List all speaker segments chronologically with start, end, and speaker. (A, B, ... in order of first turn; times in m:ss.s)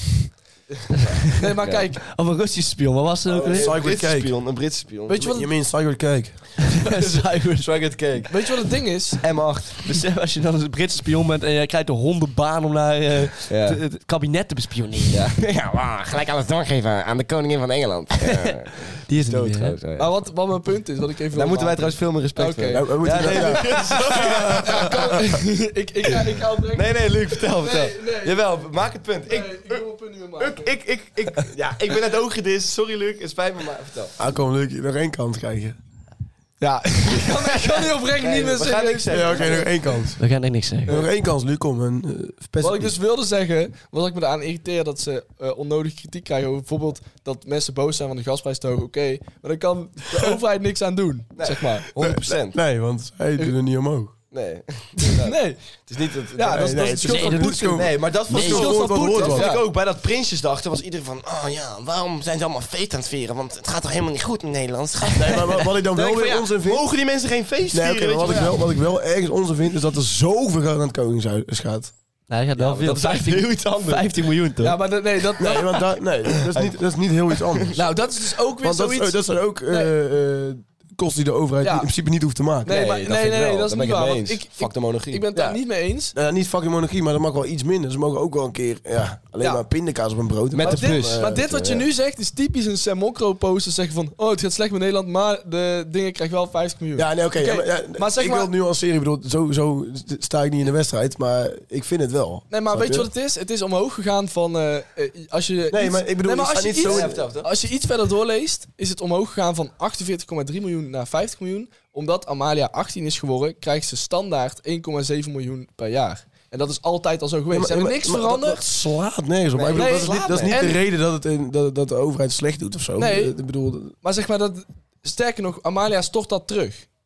0:01.1-0:03.7 A
0:01.3-0:02.1 B
0:01.6-0:01.9 C
0:03.3-0:05.3 C
0:03.5-0:04.3 D
0:05.1-0:05.5 B
0:05.2-0:06.4 D
0:06.6-0:08.0 A
0:07.0-0:08.3 C
0:08.3-0:09.2 B
0:09.2-0:09.9 C
0:09.8-0:15.3 A
0:13.5-0:13.8 C
0:15.1-0:20.1 C
0:19.1-0:19.8 A
0:19.9-0:24.0 B
0:21.3-0:25.1 C
0:22.7-0:25.0 D
0:24.6-0:28.6 B
0:26.7-0:29.8 C
0:29.3-0:30.7 B
0:30.4-0:34.2 C
0:34.2-0:35.8 D
0:36.6-0:39.7 B
0:37.4-0:39.7 C
0:39.1-0:40.2 D
0:40.2-0:41.0 A
0:40.9-0:42.9 D
0:42.6-0:51.9 B
0:51.4-0:52.6 C
0:52.0-0:54.1 D
0:54.3-1:08.6 C
0:55.0-0:55.8 B
0:56.3-0:59.6 B
0:56.5-0:59.6 D
0:57.1-0:57.8 A
1:05.1-1:06.9 D
1:07.7-1:11.9 D
1:12.3-1:14.8 A
1:12.6-1:14.2 C
1:14.6-1:15.8 B
1:15.4-1:17.8 D
1:16.4-1:16.8 C
1:17.7-1:19.2 B
1:18.6-1:22.8 D
1:21.6-1:21.9 B
1:22.6-1:25.3 C
1:22.6-1:26.1 B
1:26.1-1:31.8 D
1:30.5-1:31.6 C
1:30.6-1:38.5 B
1:37.0-1:43.1 D
1:42.5-1:58.6 B
1:45.7-1:47.3 D
1:46.8-1:47.5 C
1:57.5-2:03.9 D
1:59.6-2:00.7 C
1:59.7-2:00.8 B
2:03.0-2:03.4 B
2:04.0-2:06.9 B